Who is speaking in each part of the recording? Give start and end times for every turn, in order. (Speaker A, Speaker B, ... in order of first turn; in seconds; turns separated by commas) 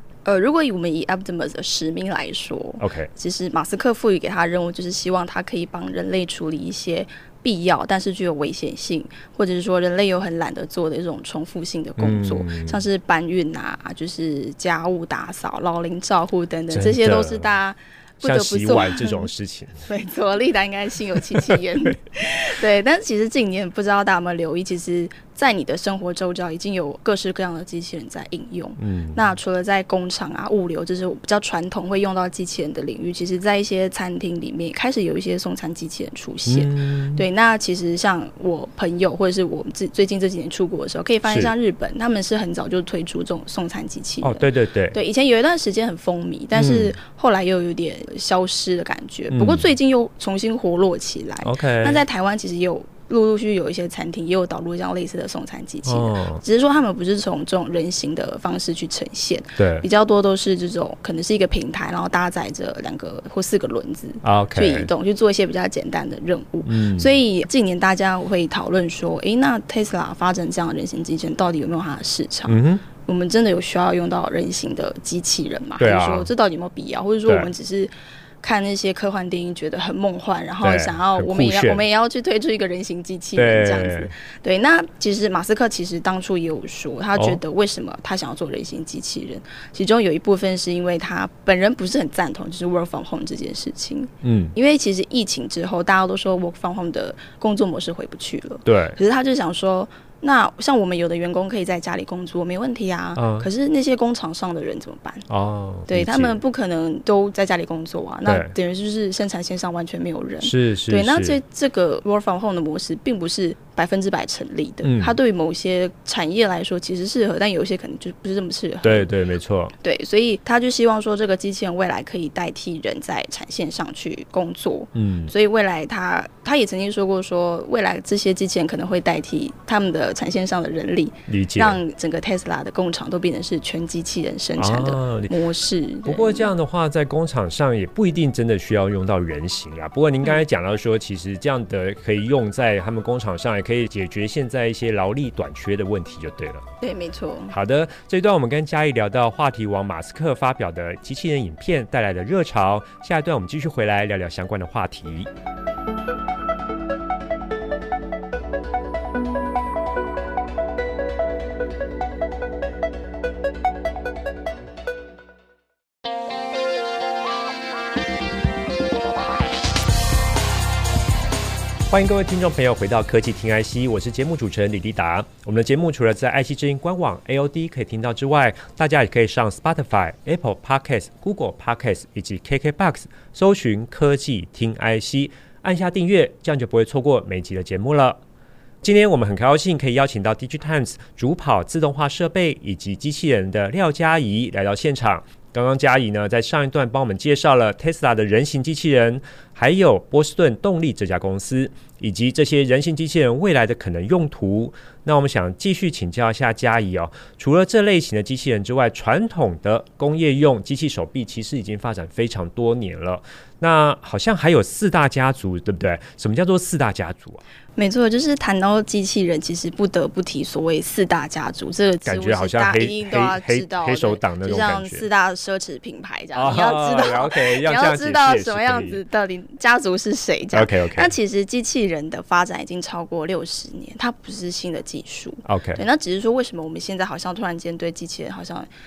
Speaker A: 0.2-19.3, Speaker B: 2.8-3.1, Speaker B: 12.0-12.8, Speaker B: 16.7-17.5, Speaker B: 18.2-19.9, Speaker A: 19.9-105.3, Speaker B: 28.8-29.2, Speaker B: 36.5-37.2, Speaker B: 41.3-41.5, Speaker B: 44.2-45.0, Speaker B: 46.5-47.0, Speaker B: 49.3-49.7, Speaker B: 51.4-52.0, Speaker B: 55.9-56.4, Speaker B: 59.6-59.9, Speaker B: 64.2-64.9, Speaker B: 66.7-67.1, Speaker B: 72.5-72.8, Speaker B: 75.8-76.3, Speaker B: 77.3-77.5, Speaker B: 80.6-81.8, Speaker B: 83.4-84.1, Speaker B: 87.2-87.4, Speaker B: 94.2-94.5, Speaker B: 98.7-99.0, Speaker B: 103.2-103.5, Speaker B: 105.3-106.4, Speaker A: 105.9-119.1, Speaker B: 108.3-108.5, Speaker B: 110.4-111.4, Speaker B: 114.8-115.2, Speaker B: 118.8-119.7, Speaker A: 119.8-136.5, Speaker B: 125.0-125.3, Speaker B: 131.3-131.8, Speaker B: 134.6-135.3, Speaker B: 136.1-146.7, Speaker A: 146.8-147.6, Speaker B: 147.5-155.3, Speaker B: 171.9-188.2, Speaker B: 188.8-217.4, Speaker A: 217.8-238.7, Speaker B: 222.1-225.1, Speaker B: 226.3-229.0, Speaker B: 230.5-231.1, Speaker B: 235.4-235.8